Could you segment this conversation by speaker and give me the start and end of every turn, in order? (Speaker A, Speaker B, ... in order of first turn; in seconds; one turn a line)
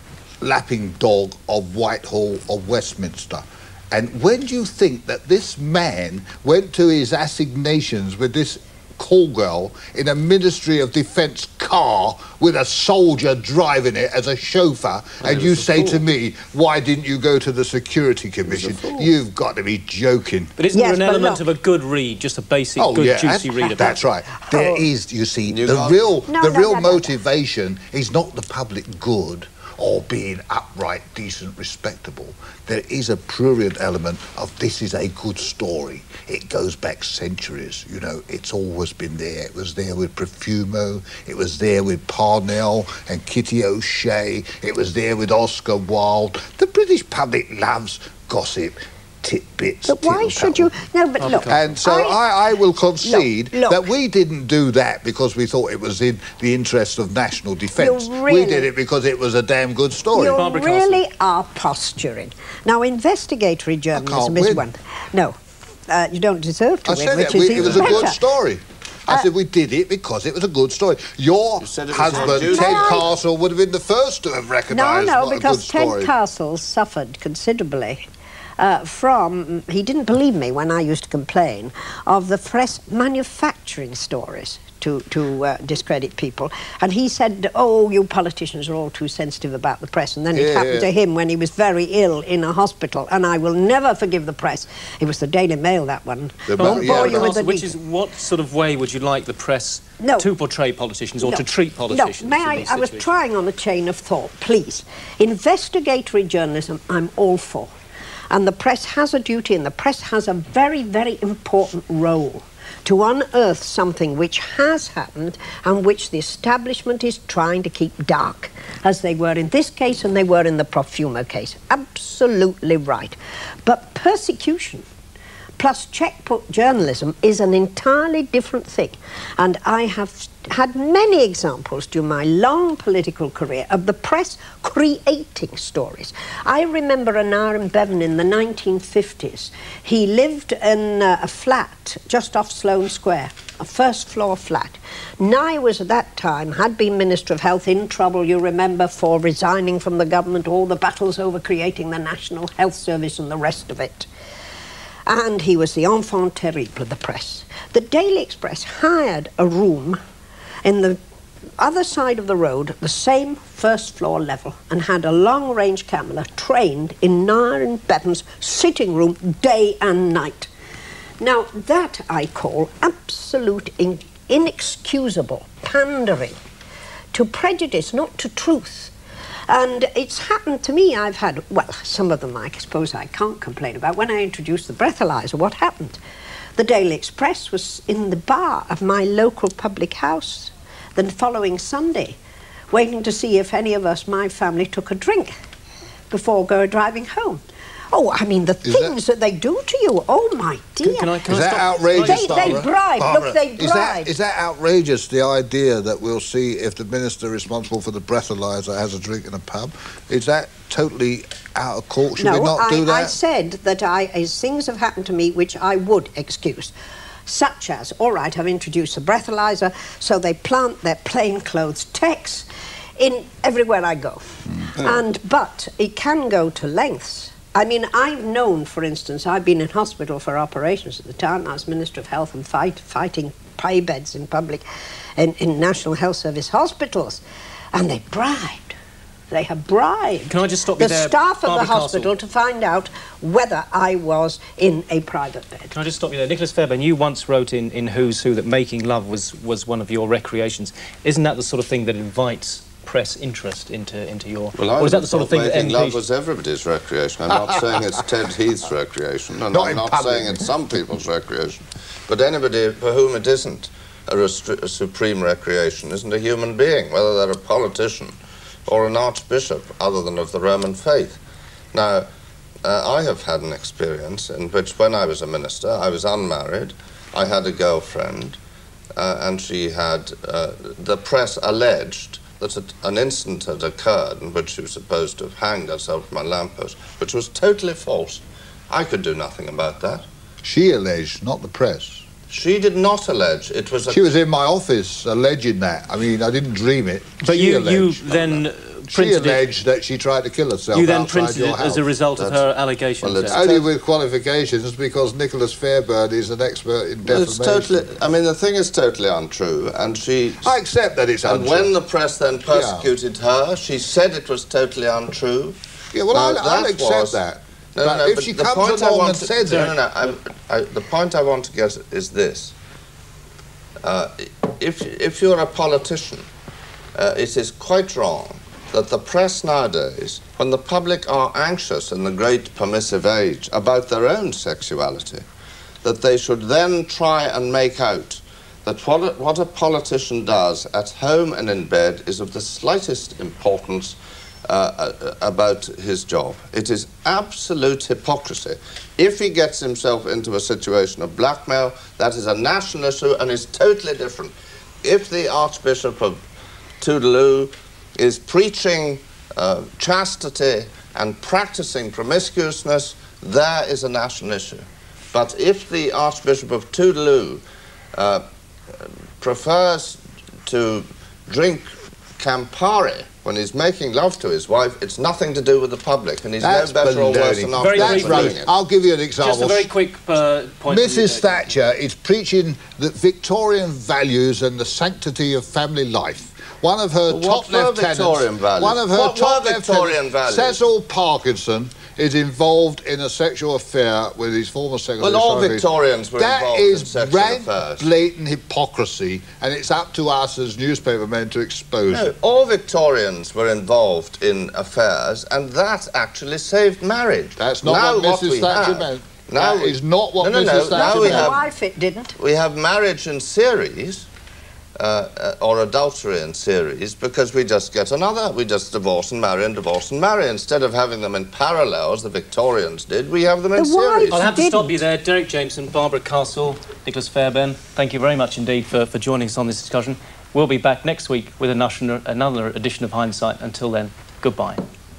Speaker A: 0.4-20.5
Speaker B: 15.2-16.0
Speaker B: 18.4-19.1
Speaker C: 20.6-24.0
Speaker D: 20.7-21.4
Speaker A: 22.8-50.7
Speaker D: 24.5-24.8
Speaker B: 25.4-26.1
Speaker D: 26.3-27.1
Speaker D: 49.8-52.2
Speaker C: 51.2-51.6
Speaker A: 51.5-60.4
Speaker D: 53.0-53.9
Speaker D: 57.8-58.7
Speaker D: 60.1-65.3
Speaker C: 60.2-61.0
Speaker A: 63.9-64.7
Speaker D: 65.9-68.2
Speaker A: 66.8-76.1
Speaker B: 67.5-68.0
Speaker B: 71.6-73.1
Speaker D: 72.3-73.0
Speaker D: 74.7-78.0
Speaker D: 78.6-97.7
Speaker A: 90.3-90.9
Speaker A: 96.5-97.3
Speaker C: 96.6-103.1
Speaker D: 100.0-100.3
Speaker D: 101.2-107.7
Speaker D: 108.3-124.8
Speaker D: 125.6-154.1
Speaker D: 155.1-160.0
Speaker D: 160.6-161.0
Speaker D: 161.6-170.5
Speaker D: 171.2-176.4
Speaker D: 177.1-178.9
Speaker D: 179.5-186.0
Speaker D: 186.6-192.2
Speaker D: 192.7-195.3
Speaker D: 196.1-197.4
Speaker D: 197.9-201.2
Speaker A: 198.6-198.9
Speaker C: 200.8-202.6
Speaker A: 201.3-213.2
Speaker D: 201.9-204.1
Speaker D: 212.2-216.7
Speaker D: 217.3-222.4
Speaker D: 223.0-234.6
Speaker D: 235.2-237.2
Speaker D: 237.7-238.7
Speaker D: 239.3-245.7
Speaker C: 240.3-242.1
Speaker C: 245.7-256.0
Speaker B: 254.5-271.2
Speaker A: 259.5-260.5
Speaker B: 271.7-272.1
Speaker B: 272.6-278.4
Speaker B: 278.9-290.0
Speaker A: 290.4-292.0
Speaker B: 292.3-294.1
Speaker A: 293.9-301.9
Speaker C: 297.2-299.5
Speaker C: 300.7-303.4
Speaker B: 302.1-303.7
Speaker A: 303.3-307.8
Speaker B: 307.0-310.6
Speaker A: 310.4-311.7
Speaker B: 311.2-315.6
Speaker A: 312.5-312.9
Speaker A: 315.9-319.8
Speaker B: 316.1-317.2
Speaker B: 317.7-322.5
Speaker B: 323.8-326.2
Speaker B: 326.9-335.2
Speaker B: 335.8-356.2
Speaker B: 356.8-367.4
Speaker B: 367.9-368.2
Speaker B: 369.2-378.5
Speaker A: 376.4-379.7
Speaker C: 377.6-378.4
Speaker C: 379.2-381.5
Speaker A: 380.7-402.1
Speaker B: 387.1-390.6
Speaker B: 395.0-397.9
Speaker B: 401.9-411.4
Speaker A: 407.4-411.4
Speaker D: 410.7-412.1
Speaker B: 412.2-414.1
Speaker B: 414.8-424.3
Speaker D: 423.6-424.7
Speaker C: 424.1-434.6